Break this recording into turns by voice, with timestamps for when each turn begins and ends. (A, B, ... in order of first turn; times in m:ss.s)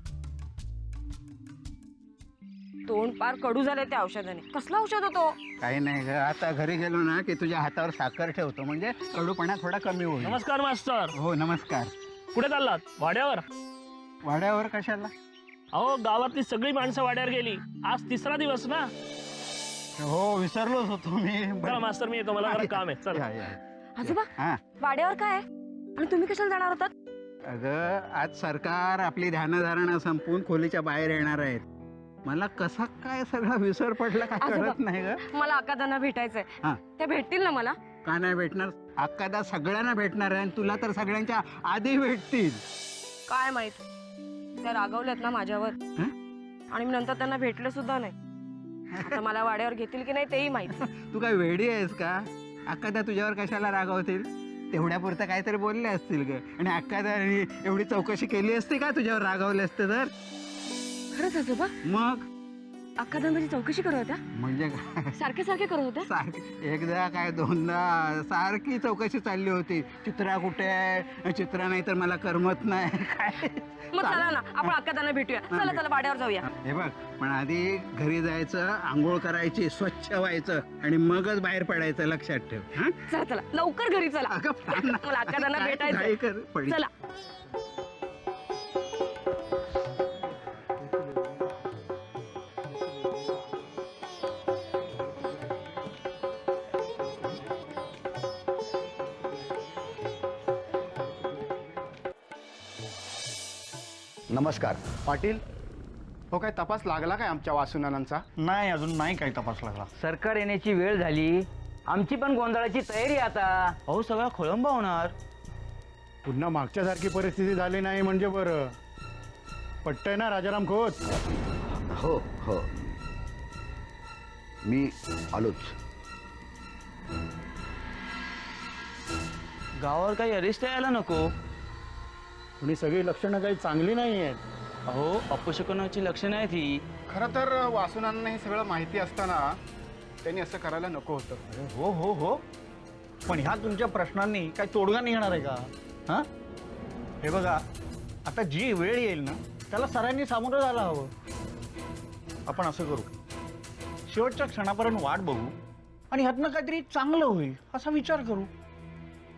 0:02.9-0:05.4 A
0:05.6-0:10.4 B
0:10.2-0:11.1 C
0:11.1-0:11.9 B
0:12.3-0:13.4 C
0:14.2-0:15.1 B
0:15.7-0:18.9 C
0:20.0-0:24.6 B
0:21.6-0:23.3 C
0:24.0-0:24.3 A
0:24.8-0:25.4 A
0:26.0-0:26.9 A
0:27.5-0:31.6 B
0:32.2-0:35.2 B
0:34.4-0:34.8 A
0:35.3-0:37.8 A
0:38.0-0:42.6 B
0:43.3-0:43.8 A
0:44.6-0:45.8 A
0:46.7-0:48.2 A
0:49.0-0:50.8 A
0:50.8-1:00.1 B
1:01.2-1:01.7 A
1:01.8-1:02.2 B
1:03.0-1:04.2 A
1:04.3-1:05.2 B
1:05.2-1:06.1 A
1:06.1-1:14.7 B
1:14.0-1:16.5 A
1:15.5-1:15.8 B
1:16.5-1:23.0 B
1:23.1-1:26.2 A
1:24.3-1:26.8 B
1:44.3-1:44.8 D
1:45.0-1:45.4 E
1:46.3-1:48.2 E
1:48.4-1:49.9 F
1:50.0-1:53.7 G
1:53.9-1:55.1 H
1:56.3-1:58.6 E
1:59.8-2:01.0 E
2:02.0-2:02.6 D
2:04.7-2:05.7 D
2:09.8-2:11.2 H
2:12.6-2:14.4 E
2:14.9-2:16.8 H
2:17.1-2:19.4 E
2:20.2-2:21.4 E
2:21.5-2:22.4 F
2:23.3-2:26.3 F
2:27.2-2:27.6 F
2:28.3-2:31.1 F
2:32.5-2:33.1 F
2:34.1-2:35.5 F
2:36.1-2:38.5 F